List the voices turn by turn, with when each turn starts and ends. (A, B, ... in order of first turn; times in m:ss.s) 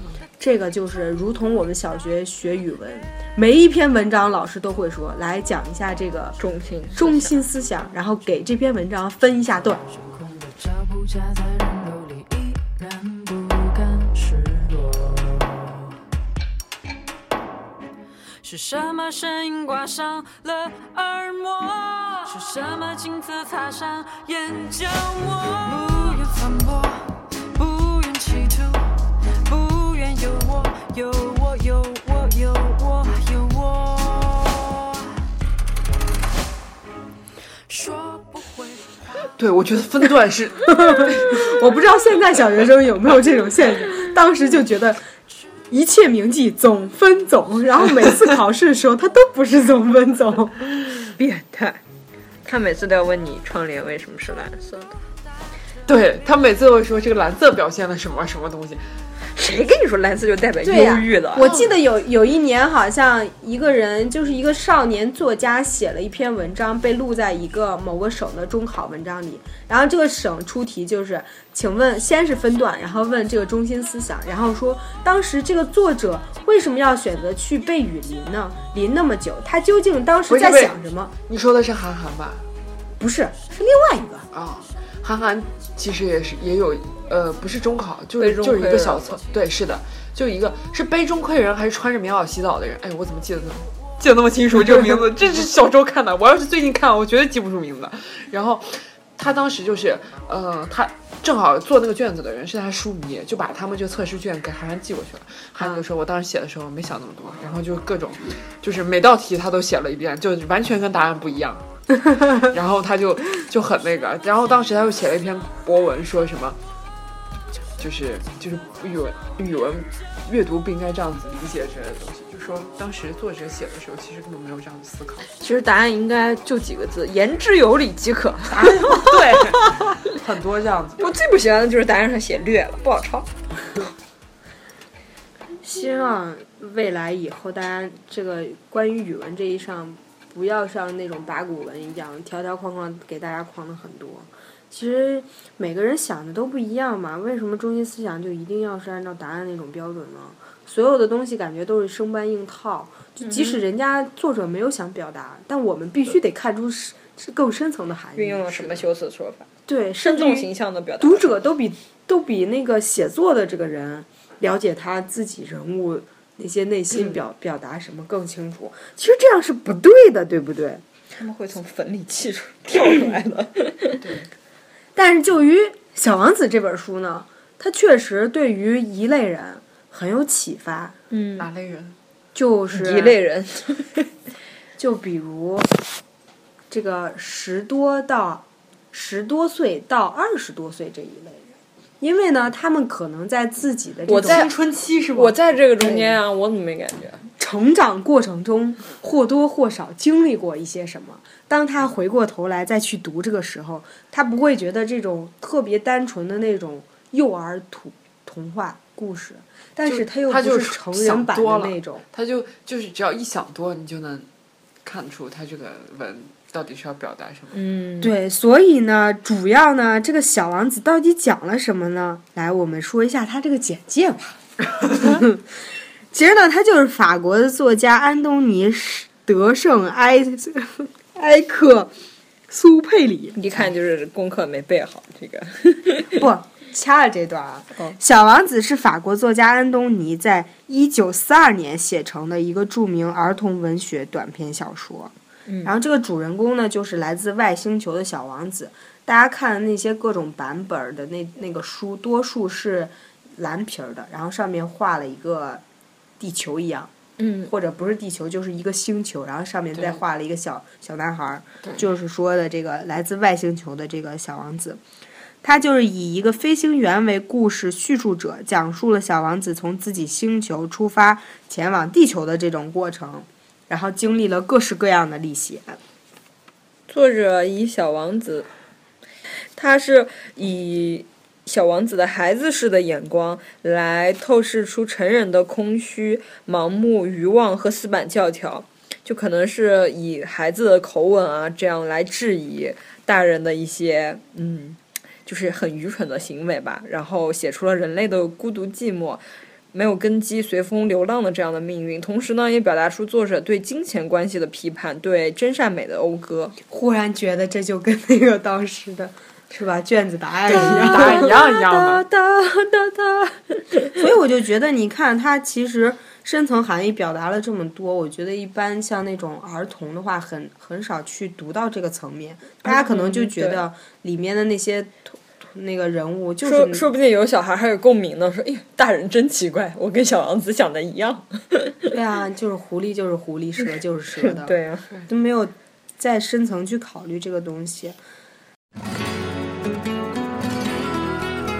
0:00.4-0:06.4 A
0:06.4-0:07.3 B
0:07.0-0:09.8 A
0:10.1-0:15.7 C
0:18.4-0:28.9 C
0:29.4-0:35.0 C
0:37.7-0:38.8 C
0:39.4-0:41.4 D
0:40.8-0:45.0 A
0:45.7-0:50.6 A
0:51.1-0:51.8 B
0:52.4-0:55.0 B
0:55.9-0:58.8 D
0:59.4-1:01.5 B
1:00.6-1:21.1 A
1:01.4-1:01.8 D
1:20.3-1:20.8 D
1:21.3-1:22.5 D
1:23.0-1:24.3 A
1:24.3-1:56.6 D
1:28.2-1:29.2 B
1:57.8-2:05.3 D
2:05.4-2:09.4 B
2:08.7-2:11.1 D
2:11.0-2:13.3 B
2:15.6-2:38.7 A
2:33.2-2:33.6 B
2:38.2-2:39.5 B
2:39.7-2:40.5 A
2:40.0-2:41.4 B
2:41.0-2:50.8 A
2:51.2-2:54.0 B
2:54.0-2:54.3 D
2:55.0-3:01.0 A
3:01.1-3:01.5 B
3:01.4-3:02.0 D
3:02.4-3:03.2 A
3:02.7-3:04.1 B
3:04.8-3:05.7 A
3:06.7-3:11.5 A
3:12.0-3:14.5 A
3:14.1-3:14.5 B
3:14.2-3:15.4 D
3:15.1-3:17.2 B
3:15.8-3:16.1 A
3:17.4-3:32.0 A
3:29.8-3:34.3 D
3:34.8-3:37.6 D
3:37.5-3:38.1 B
3:38.0-3:44.4 A
3:44.9-3:45.4 A
3:46.1-3:51.9 A
3:52.5-3:53.4 A
3:53.4-3:56.2 B
3:56.2-4:05.1 A
4:05.5-4:05.7 B
4:05.6-4:15.6 A
4:16.2-4:16.9 A
4:17.2-4:17.5 B
4:17.4-4:24.8 A
4:25.4-4:35.8 A
4:36.9-4:38.5 B
4:39.6-5:06.6 B
5:06.7-5:11.7 A
5:10.5-5:12.1 D
5:10.5-5:13.4 B
5:13.9-5:26.8 A
5:22.6-5:23.6 B
5:26.4-5:31.8 B
5:31.9-5:34.5 A
5:34.2-5:34.9 B
5:35.1-5:38.0 A